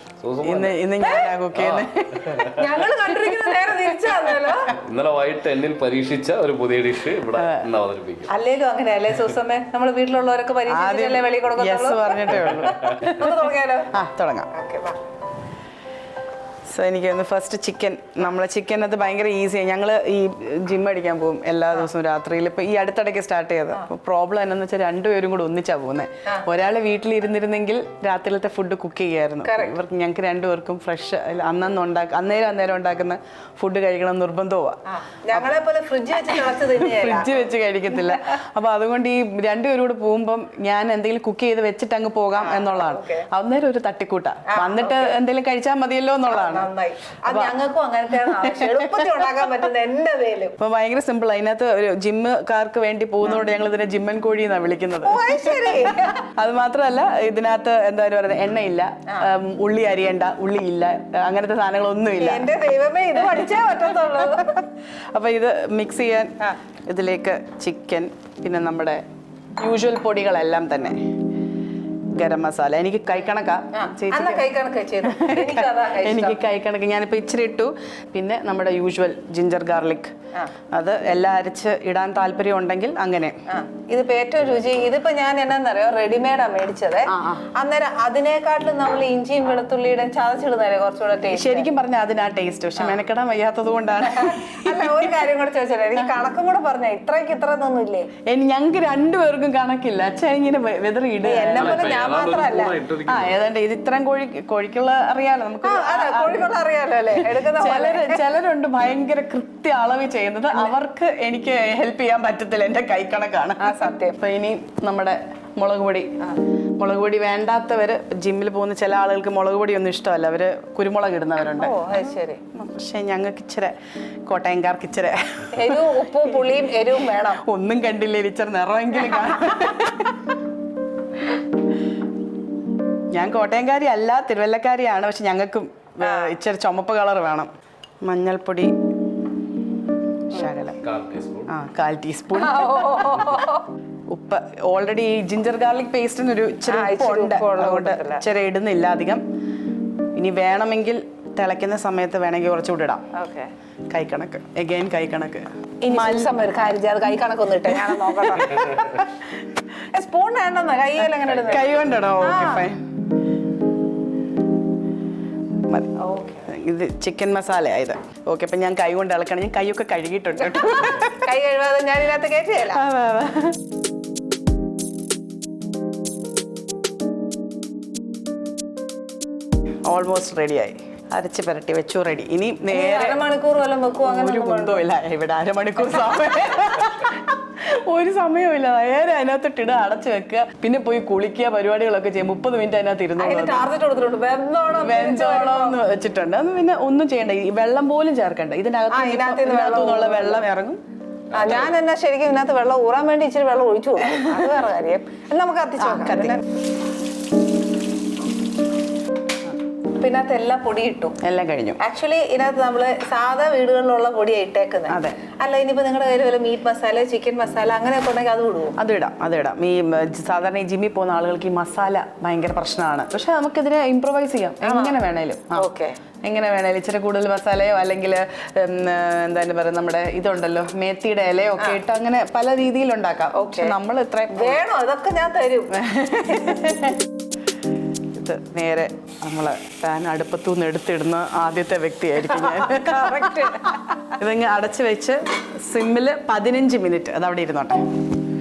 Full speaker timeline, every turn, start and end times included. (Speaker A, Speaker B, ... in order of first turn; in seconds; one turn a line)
Speaker A: 0.2-0.8
Speaker B: 0.4-2.5
Speaker C: 1.0-1.3
Speaker A: 1.5-2.6
Speaker C: 2.6-4.7
Speaker B: 3.2-4.5
Speaker A: 4.8-8.3
Speaker B: 7.4-7.7
Speaker C: 8.3-13.9
Speaker B: 10.7-13.4
Speaker A: 12.5-12.9
Speaker B: 13.9-14.5
Speaker C: 14.5-15.0
Speaker B: 16.7-34.8
Speaker C: 29.4-29.8
Speaker C: 34.9-38.2
Speaker B: 36.3-46.7
Speaker C: 42.4-43.3
Speaker C: 44.5-45.1
Speaker C: 46.3-50.6
Speaker B: 47.3-47.6
Speaker B: 48.4-49.3
Speaker B: 50.6-62.5
Speaker C: 55.0-56.2
Speaker C: 62.2-64.6
Speaker B: 63.1-63.6
Speaker B: 64.1-64.4
Speaker B: 65.1-66.3
Speaker B: 66.9-69.0
Speaker B: 69.6-71.0
Speaker B: 72.1-80.1
Speaker C: 73.8-76.4
Speaker B: 80.7-83.4
Speaker C: 83.5-91.7
Speaker B: 87.1-87.5
Speaker B: 91.3-95.2
Speaker C: 94.0-98.1
Speaker B: 98.3-102.0
Speaker C: 101.2-102.8
Speaker A: 101.5-103.4
Speaker B: 103.1-106.5
Speaker C: 105.6-108.2
Speaker B: 107.2-116.1
Speaker C: 113.6-114.2
Speaker B: 116.8-123.8
Speaker C: 121.5-122.4
Speaker B: 124.3-130.3
Speaker C: 125.5-127.4
Speaker C: 129.0-129.4
Speaker B: 133.1-137.5
Speaker C: 136.0-136.4
Speaker B: 138.1-138.7
Speaker B: 140.3-140.8
Speaker A: 140.8-141.5
Speaker B: 141.5-143.4
Speaker C: 142.3-143.7
Speaker B: 144.1-149.2
Speaker C: 146.7-148.2
Speaker B: 150.2-153.1
Speaker C: 153.1-153.5
Speaker B: 153.9-156.3
Speaker C: 155.8-159.1
Speaker B: 157.7-159.1
Speaker C: 159.9-162.7
Speaker B: 161.0-162.8
Speaker A: 161.3-161.6
Speaker B: 165.7-171.3
Speaker C: 166.0-166.5
Speaker C: 170.4-172.8
Speaker B: 172.7-173.6
Speaker B: 179.9-183.2
Speaker C: 182.7-184.8
Speaker B: 184.1-193.7
Speaker C: 185.9-186.6
Speaker C: 193.2-195.8
Speaker B: 194.8-200.8
Speaker C: 198.9-200.4
Speaker C: 201.3-206.4
Speaker A: 201.3-201.7
Speaker B: 204.1-204.4
Speaker B: 205.8-206.4
Speaker C: 210.0-211.2
Speaker B: 211.2-211.8
Speaker C: 211.8-218.8
Speaker B: 214.9-215.2
Speaker B: 218.8-225.6
Speaker C: 224.6-225.0
Speaker C: 225.6-226.0
Speaker B: 226.2-234.6
Speaker C: 233.3-233.8
Speaker C: 234.3-235.8
Speaker B: 235.8-237.1
Speaker C: 236.3-236.6
Speaker B: 238.2-243.4
Speaker C: 242.2-244.1
Speaker B: 244.2-247.8